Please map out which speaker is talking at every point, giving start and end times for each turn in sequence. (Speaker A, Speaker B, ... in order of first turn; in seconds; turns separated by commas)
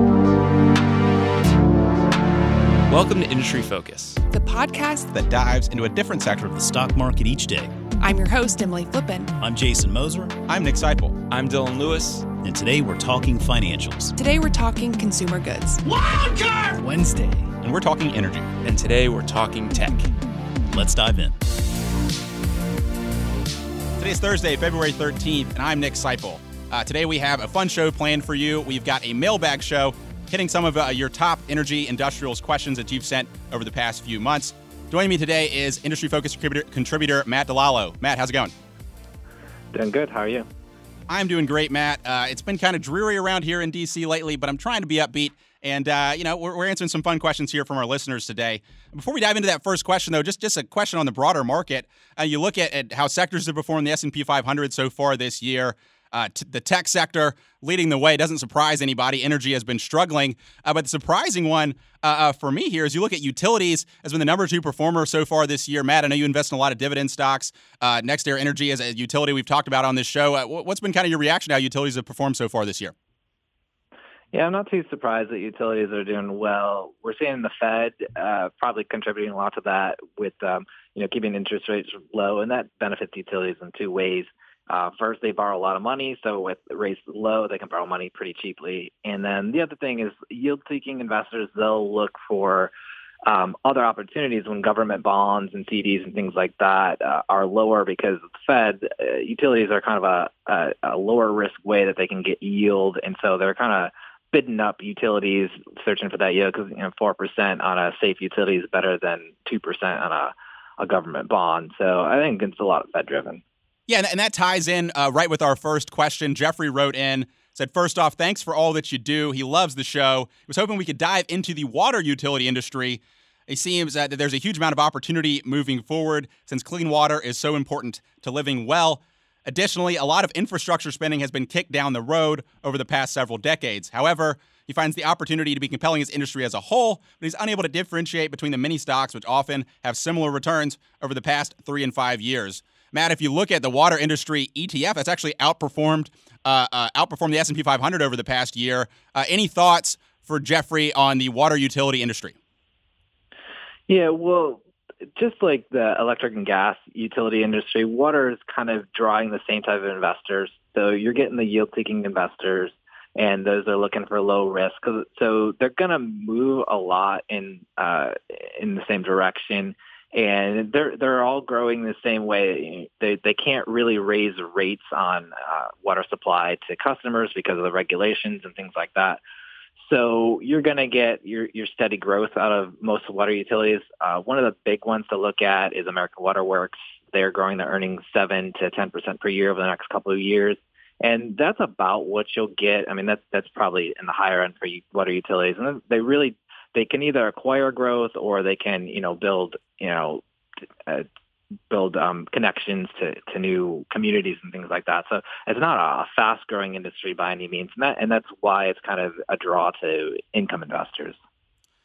Speaker A: 2.9-4.2, Speaker B: 4.3-5.1, Speaker C: 5.1-6.4, Speaker D: 6.4-7.8, Speaker B: 8.0-9.3, Speaker D: 9.4-10.4, Speaker C: 10.5-11.3, Speaker A: 11.3-12.3, Speaker D: 12.3-14.2, Speaker B: 14.2-15.8, Speaker D: 15.9-17.4, Speaker C: 17.5-18.5, Speaker A: 18.6-20.1, Speaker D: 20.7-21.4, Speaker C: 24.0-38.5, Speaker E: 39.7-40.5, Speaker C: 41.1-72.9, Speaker E: 74.3-92.7, Speaker E: 93.3-113.4, Speaker C: 113.9-152.4, Speaker E: 153.9-154.6, Speaker E: 155.2-179.2, Speaker E: 179.8-200.2, Speaker E: 201.7-211.2